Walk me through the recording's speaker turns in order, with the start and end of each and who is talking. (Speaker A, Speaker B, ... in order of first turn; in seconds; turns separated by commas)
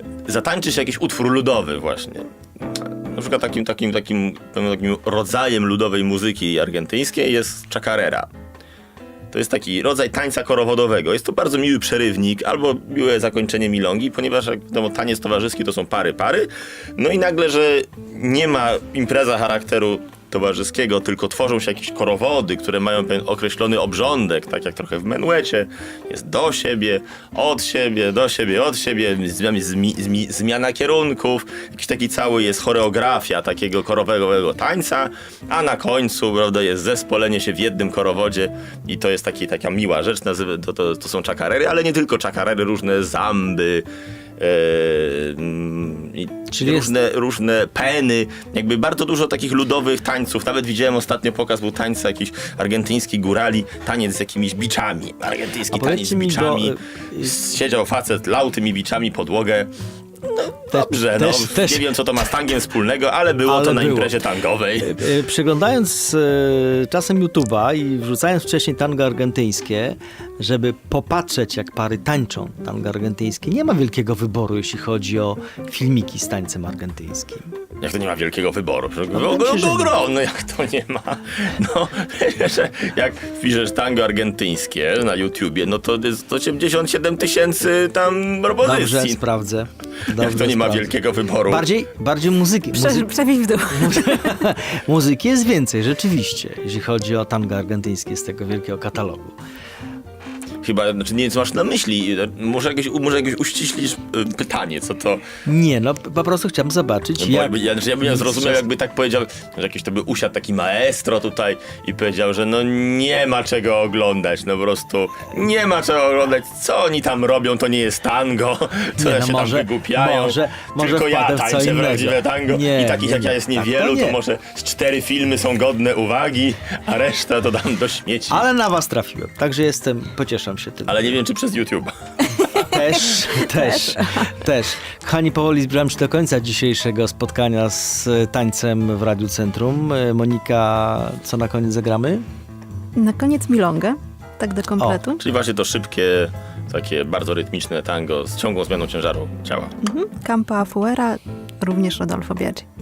Speaker A: 0.2-8.3, Speaker A: 9.3-43.9, Speaker A: 44.4-65.0, Speaker B: 46.5-46.9, Speaker B: 55.7-57.4, Speaker B: 60.7-61.9, Speaker B: 63.5-64.2, Speaker B: 64.8-77.5, Speaker A: 77.8-89.2, Speaker B: 79.1-79.9, Speaker B: 88.6-90.9, Speaker A: 90.1-91.7, Speaker B: 91.5-93.1, Speaker C: 92.7-94.3, Speaker B: 93.7-99.4, Speaker A: 100.6-105.2, Speaker B: 105.5-108.7, Speaker A: 107.2-128.5, Speaker B: 119.0-124.2, Speaker B: 128.3-131.1, Speaker A: 130.8-131.9, Speaker B: 132.5-142.2, Speaker C: 133.5-134.3, Speaker C: 143.0-145.2, Speaker A: 145.2-149.7, Speaker C: 149.8-152.7